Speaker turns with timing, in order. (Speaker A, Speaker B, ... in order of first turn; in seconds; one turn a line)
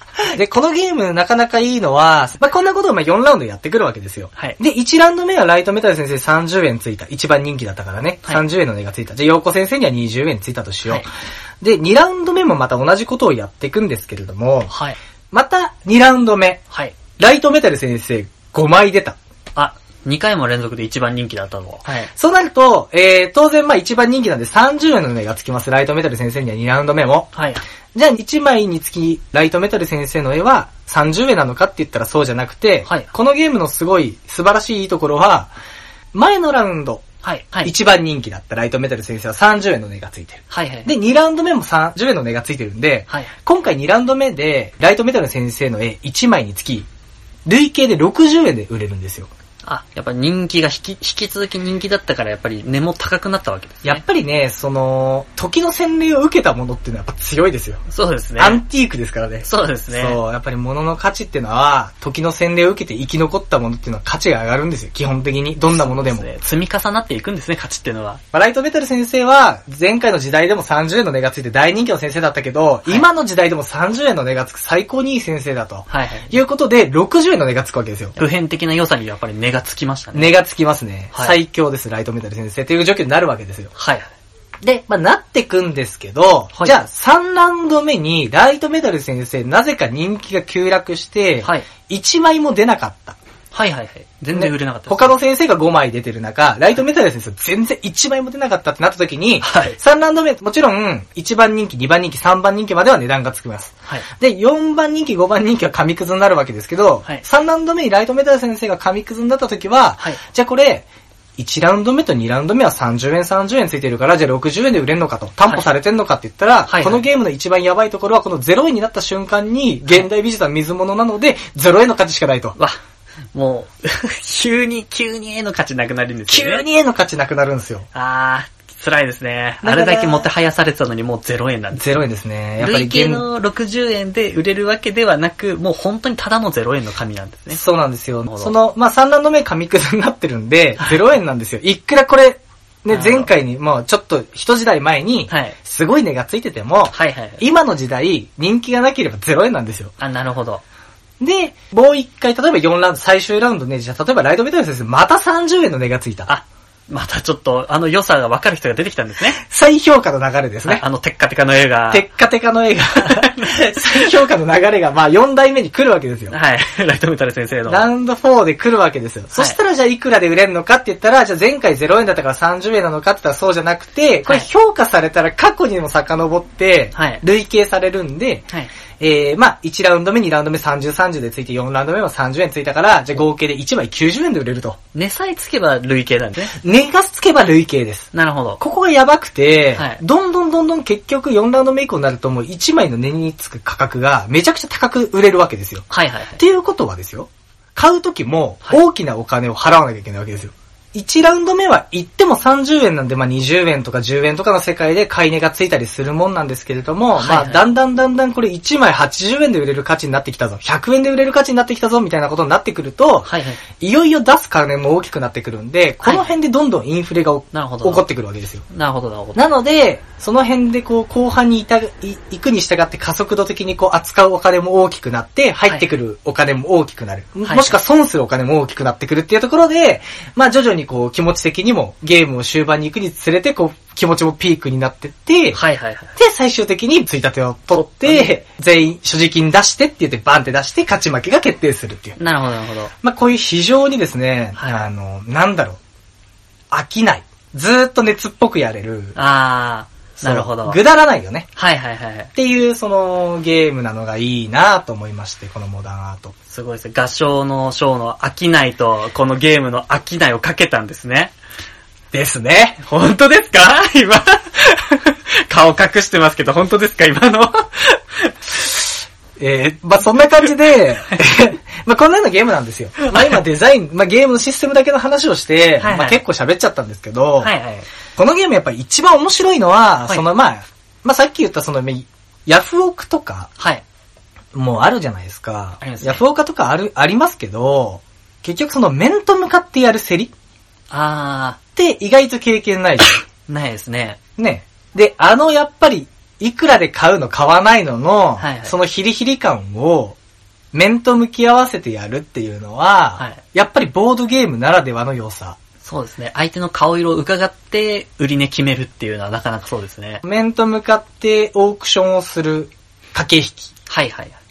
Speaker A: 0.2-11.1
Speaker A: 11.6-14.7
Speaker B: 14.7-15.0
Speaker A: 15.3-16.6
Speaker A: 17.2-19.2
Speaker B: 19.6-22.1
Speaker A: 22.1-27.3
Speaker B: 27.3-27.6
Speaker A: 27.9-35.5
Speaker B: 32.9-33.1
Speaker A: 36.1-37.0
Speaker B: 37.2-37.7
Speaker A: 37.6-46.9
Speaker B: 40.5-40.9
Speaker A: 47.5-49.3
Speaker B: 49.6-54.0
Speaker A: 53.8-57.8
Speaker B: 57.9-58.6
Speaker A: 58.4-66.2
Speaker B: 59.4-60.2
Speaker B: 65.7-68.2
Speaker A: 68.3-78.2
Speaker B: 75.9-76.4
Speaker B: 78.2-80.3
Speaker A: 80.1-83.7
Speaker B: 81.1-81.4
Speaker B: 83.7-84.1
Speaker A: 84.6-93.2
Speaker B: 91.4-91.7
Speaker B: 93.5-95.2
Speaker A: 94.3-110.8
Speaker B: 99.4-99.8
Speaker A: 111.4-122.6
Speaker B: 116.7-117.0
Speaker B: 123.3-126.6
Speaker A: 126.3-127.9
Speaker B: 127.9-132.0
Speaker A: 129.6-130.2
Speaker A: 131.8-133.2
Speaker B: 132.6-137.6
Speaker A: 137.5-149.9
Speaker B: 138.3-138.5
Speaker B: 142.9-143.3
Speaker B: 145.3-145.6
Speaker B: 146.9-147.4
Speaker B: 150.0-150.6
Speaker A: 151.2-156.3
Speaker B: 156.3-159.4
Speaker A: 159.4-160.8
Speaker B: 160.6-162.1
Speaker A: 161.9-166.3
Speaker B: 162.9-164.1
Speaker B: 166.3-167.8
Speaker A: 167.7-178.5
Speaker B: 176.9-177.2
Speaker A: 179.0-184.8
Speaker B: 184.9-186.6
Speaker A: 186.6-188.1
Speaker B: 188.1-188.6
Speaker A: 188.6-195.8
Speaker B: 189.8-190.0
Speaker B: 195.9-196.4
Speaker A: 196.4-218.6
Speaker B: 207.2-207.6
Speaker B: 213.2-213.6
Speaker B: 216.0-216.3
Speaker B: 217.5-218.0
Speaker B: 218.7-219.4
Speaker A: 219.3-235.6
Speaker B: 227.4-227.8
Speaker B: 235.5-236.1
Speaker A: 236.2-242.2
Speaker B: 237.7-238.4
Speaker B: 242.2-242.9
Speaker A: 243.0-245.8
Speaker B: 244.6-244.9
Speaker A: 246.7-249.2
Speaker B: 249.1-250.8
Speaker A: 250.2-251.5
Speaker B: 251.6-252.3
Speaker A: 252.3-256.3
Speaker B: 256.5-261.3
Speaker A: 262.1-262.8
Speaker B: 262.8-268.6
Speaker A: 269.4-277.5
Speaker B: 273.0-273.3
Speaker B: 275.8-276.2
Speaker B: 277.4-277.9
Speaker A: 278.2-283.5
Speaker B: 283.6-283.8
Speaker A: 284.5-290.3
Speaker B: 285.8-286.2
Speaker B: 290.9-291.6
Speaker A: 291.8-293.2
Speaker B: 293.4-294.2
Speaker A: 294.4-300.2
Speaker B: 298.4-298.7
Speaker A: 300.7-305.6
Speaker B: 305.8-310.2
Speaker A: 310.2-313.7
Speaker B: 313.9-314.4